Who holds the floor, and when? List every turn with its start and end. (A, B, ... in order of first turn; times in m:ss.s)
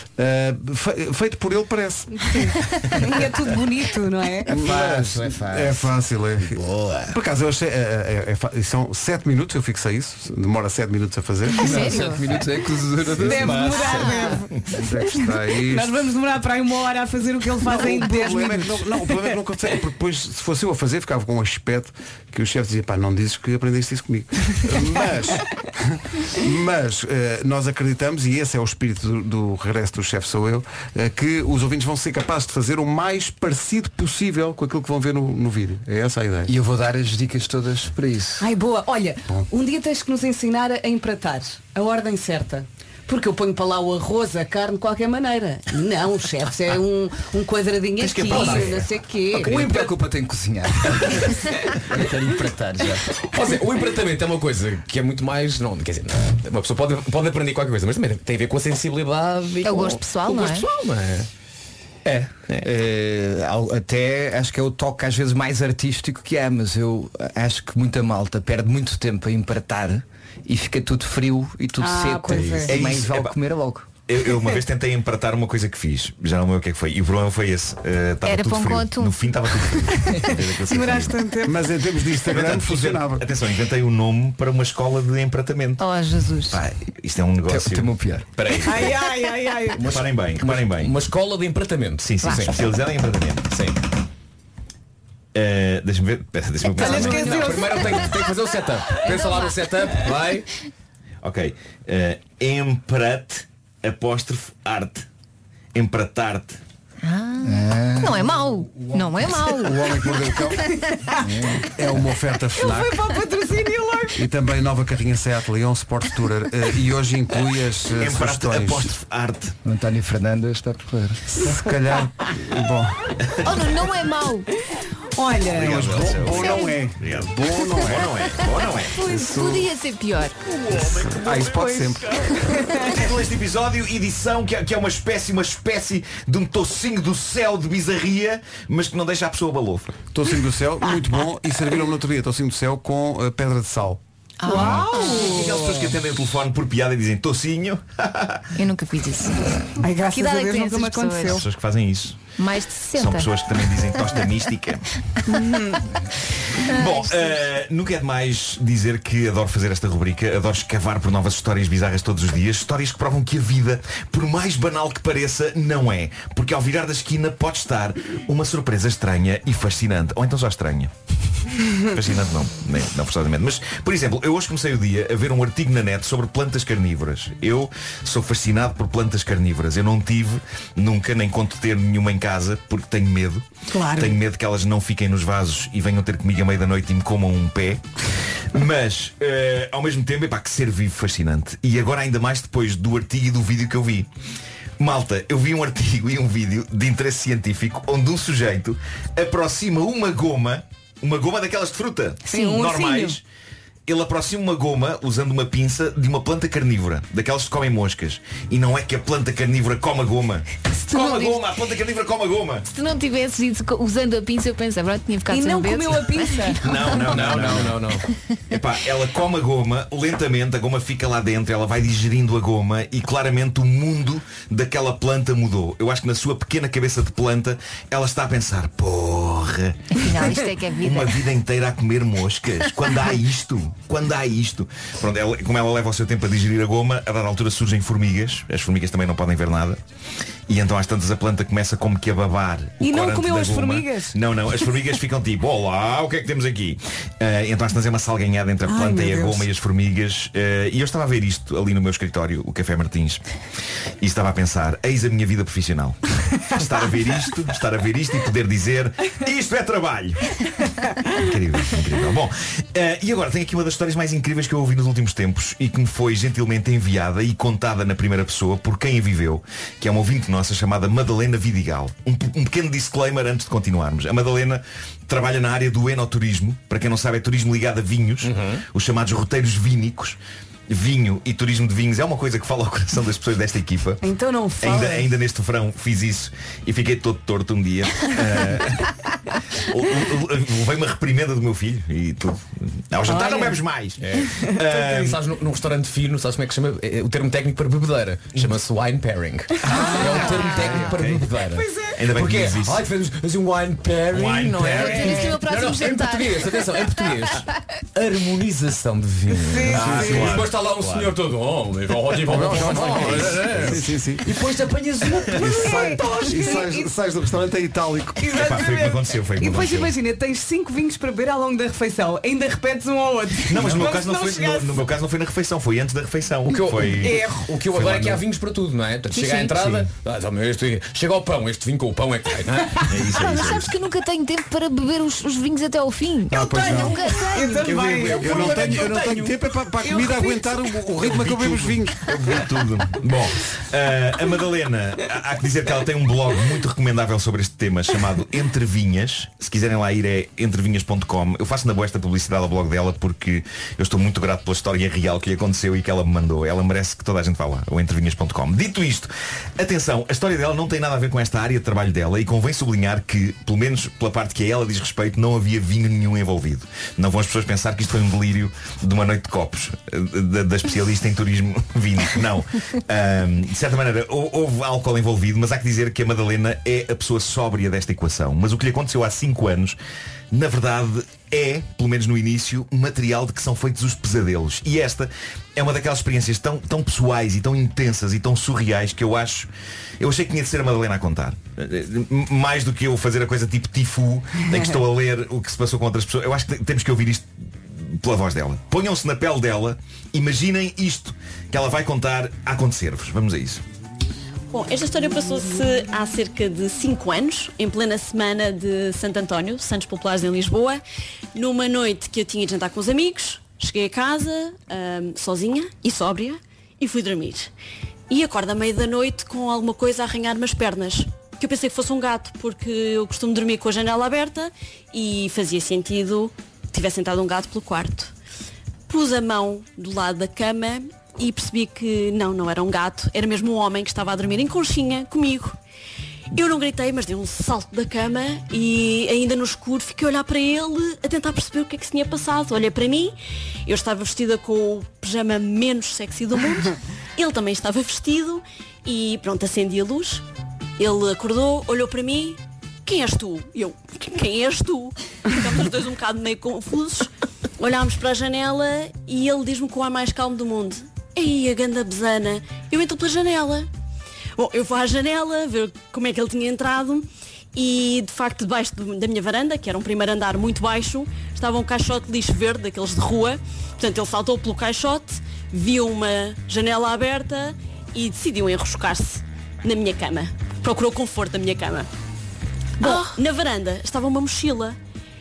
0:00.2-0:02.5 A
0:03.0-0:04.5 B
0:04.5-0:12.0 A
0:04.5-0:05.9 C
0:06.4-0:07.1 C
0:11.6-0:12.2 D
0:11.6-0:13.7 C
0:13.1-0:14.5 B
0:13.7-0:14.4 D
0:14.7-0:15.9 A
0:15.1-0:19.2 B
0:17.7-0:36.5 A
0:36.5-0:38.4 C
0:38.4-0:49.9 B
0:48.0-0:53.1 C
0:48.3-0:48.7 E
0:53.2-1:01.3 E
0:59.6-1:00.7 D
1:02.0-1:13.9 C
1:11.8-1:12.8 B
1:12.7-1:13.3 F
1:14.1-1:21.2 F
1:18.2-1:19.8 D
1:20.2-1:21.6 B
1:21.4-1:23.2 A
1:22.2-1:25.8 F
1:25.8-1:26.6 D
1:26.5-1:27.9 F
1:27.5-1:28.3 C
1:28.3-1:28.9 E
1:28.6-1:29.8 B
1:29.8-1:30.9 F
1:29.8-1:32.6 E
1:32.0-1:33.5 F
1:32.2-1:32.5 D
1:33.5-1:33.8 E
1:35.3-1:37.4 F
1:36.7-1:38.2 D
1:36.8-1:37.9 B
1:37.0-1:40.4 E
1:39.0-1:39.6 D
1:41.2-1:45.0 F
1:45.7-1:46.6 F
1:47.0-1:50.0 D
1:47.4-1:48.3 C
1:48.7-1:50.7 A
1:51.2-1:51.6 C
1:51.6-1:53.0 A
1:52.6-1:54.2 B
1:54.2-1:58.9 A
1:58.0-1:59.6 F
1:59.6-2:01.2 C
2:01.4-2:03.0 A
2:03.4-2:04.5 D
2:05.2-2:06.4 B
2:05.5-2:08.9 F
2:05.5-2:08.1 A
2:06.3-2:06.7 D
2:09.0-2:09.2 B
2:09.0-2:10.4 D
2:09.0-2:09.7 A
2:10.7-2:12.3 A
2:11.4-2:12.9 B
2:12.9-2:20.0 F
2:20.1-2:24.0 A
2:24.4-2:25.5 D
2:24.5-2:25.9 B
2:24.5-2:28.4 F
2:28.5-2:29.4 D
2:29.8-2:31.4 B
2:30.1-2:31.4 D
2:31.3-2:32.3 F
2:32.4-2:33.9 D
2:32.9-2:34.8 F
2:35.3-2:35.8 D
2:36.6-2:37.4 D
2:36.7-2:50.9 F
2:51.9-3:07.8 F
3:03.7-3:04.2 B
3:08.5-3:14.1 F
3:14.8-3:23.2 F
3:22.2-3:22.8 D
3:22.3-3:23.2 B
3:23.9-3:32.6 F
3:30.7-3:31.5 D
3:32.7-3:37.1 D
3:35.3-3:36.6 B
3:36.6-3:37.8 F
3:37.0-3:38.0 E
3:38.5-3:50.0 F
3:49.9-3:51.3 D
3:50.8-3:59.8 F
4:00.5-4:13.2 F
4:02.8-4:04.2 B
4:08.6-4:09.5 B
4:14.0-4:20.3 F
4:21.1-4:40.2 F
4:38.2-4:38.6 E
4:40.7-4:44.0 F
4:44.0-4:45.1 B
4:44.6-4:48.9 F
4:49.6-4:55.2 F
4:53.1-4:53.6 B
4:54.0-5:16.1 E
4:54.4-4:54.6 B
4:59.6-5:00.8 B
4:59.6-5:00.8 D
5:00.6-5:01.3 F
5:01.5-5:02.1 B
5:02.0-5:02.8 F
5:04.1-5:05.0 F
5:04.6-5:07.1 D
5:09.4-5:10.2 B
5:09.7-5:10.4 A
5:09.8-5:11.1 F
5:12.2-5:14.2 A
5:13.0-5:13.4 F
5:15.3-5:18.2 A
5:15.4-5:16.9 B
5:18.2-5:24.9 B
5:18.3-5:19.9 F
5:23.4-5:27.2 F
5:26.5-5:32.9 E
5:27.0-5:27.5 B
5:29.1-5:29.7 D
5:32.9-5:33.7 F
5:33.1-5:37.7 D
5:36.3-5:37.0 A
5:36.6-5:39.1 B
5:37.6-5:39.3 E
5:38.1-5:42.0 A
5:39.8-5:40.4 B
5:41.0-6:19.8 F
6:20.3-6:29.5 F
6:30.0-6:37.3 F
6:37.8-6:43.6 F
6:44.5-6:50.8 G
6:51.3-6:57.5 G
6:58.1-7:08.1 G
7:08.9-7:15.5 G
7:16.3-7:30.2 G
7:30.8-7:43.7 G
7:44.4-8:01.9 G
8:02.8-8:03.2 B
8:02.8-8:04.8 G